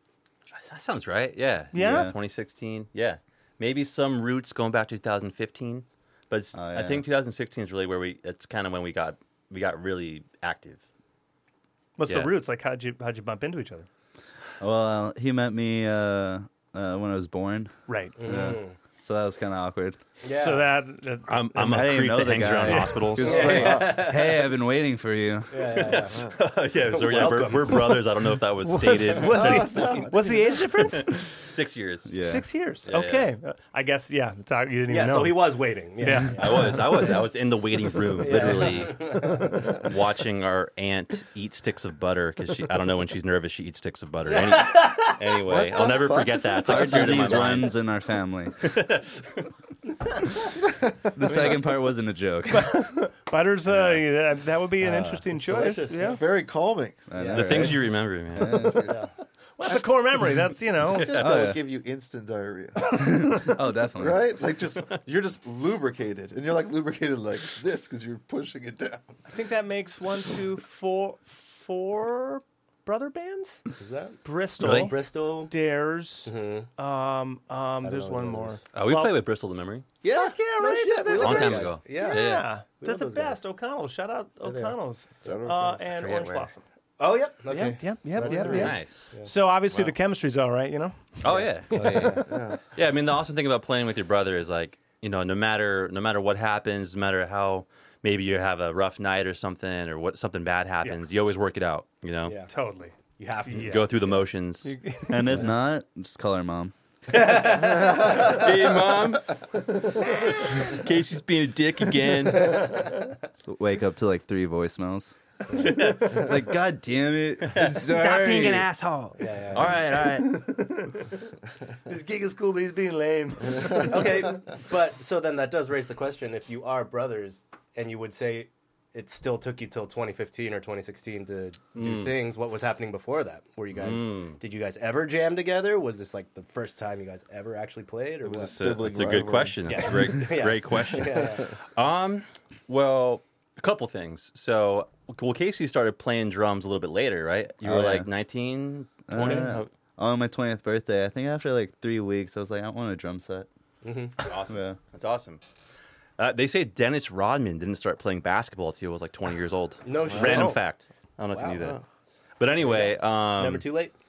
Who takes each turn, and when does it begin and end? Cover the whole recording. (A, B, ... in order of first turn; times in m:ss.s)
0:00.5-0:10.8 A
0:01.7-0:02.1 B
0:01.7-0:02.1 C
0:06.5-0:07.0 C
0:12.0-0:13.9 B
0:12.0-0:12.3 A
0:14.6-0:20.0 C
0:17.9-0:18.5 B
0:18.2-0:18.8 D
0:20.2-0:20.7 D
0:20.4-0:21.9 B
0:21.3-0:23.8 A
0:21.6-0:25.8 C
0:22.5-0:23.5 B
0:23.2-0:24.4 D
0:23.2-0:24.0 E
0:25.5-0:26.3 D
0:25.8-0:29.7 A
0:26.1-0:26.4 E
0:26.8-0:28.1 D
0:28.6-0:31.3 B
0:29.2-0:30.9 E
0:30.9-0:32.1 A
0:32.1-0:32.4 C
0:32.2-0:36.8 B
0:32.8-0:33.3 A
0:34.9-0:37.2 D
0:36.4-0:47.8 A
0:38.2-0:39.7 D
0:39.1-0:39.4 B
0:44.2-0:45.2 D
0:45.4-0:47.7 E
0:46.6-0:48.6 C
0:48.6-0:49.4 A
0:50.9-0:51.6 E
0:51.1-0:52.8 C
0:52.5-0:56.2 B
0:53.7-0:54.0 C
0:54.8-0:55.3 C
0:55.4-0:56.2 D
0:56.0-0:57.1 E
0:57.1-0:58.9 C
0:57.1-0:57.8 D
0:57.3-0:58.7 A
0:58.4-0:59.0 E
0:58.8-0:59.1 D
0:59.6-1:01.2 B
1:00.9-1:03.3 E
1:00.9-1:01.4 A
1:01.1-1:01.6 C
1:02.9-1:04.4 C
1:02.9-1:03.5 B
1:04.0-1:09.2 E
1:09.3-1:13.6 B
1:13.8-1:15.5 D
1:14.2-1:19.2 B
1:14.6-1:14.9 A
1:16.2-1:16.7 D
1:17.8-1:18.6 D
1:18.7-1:19.8 A
1:20.0-1:23.4 D
1:20.0-1:26.6 B
1:21.1-1:22.5 A
1:24.4-1:24.8 D
1:25.2-1:25.9 E
1:25.9-1:26.5 A
1:27.0-1:29.3 D
1:27.5-1:31.2 B
1:28.2-1:28.6 E
1:28.4-1:29.2 A
1:31.2-1:32.1 A
1:31.2-1:32.3 D
1:31.7-1:32.2 C
1:32.3-1:32.6 E
1:32.7-1:42.4 A
1:42.2-1:42.5 D
1:42.5-1:44.1 B
1:43.2-1:44.2 D
1:43.6-1:44.8 A
1:44.6-1:45.3 B
1:45.1-1:46.7 C
1:47.2-1:47.8 D
1:47.2-1:49.3 A
1:47.6-1:48.5 E
1:50.0-1:52.7 A
1:52.5-1:52.8 D
1:53.4-1:58.7 C
1:55.5-1:56.4 A
1:57.4-2:00.4 A
1:59.2-1:59.7 D
1:59.9-2:01.3 B
2:01.8-2:04.2 B
2:03.7-2:18.6 D
2:11.7-2:12.2 A
2:13.7-2:14.4 A
2:18.2-2:20.0 E
2:18.5-2:29.7 A
2:19.7-2:21.5 D
2:21.0-2:21.4 E
2:27.6-2:28.1 C
2:29.1-2:33.5 C
2:33.8-2:34.2 D
2:34.2-2:35.4 A
2:34.5-2:34.8 C
2:36.2-2:41.8 A
2:39.8-2:40.6 D
2:40.0-2:40.6 E
2:41.3-2:41.7 D
2:41.5-2:41.8 E
2:42.4-2:43.7 A
2:42.6-2:43.9 D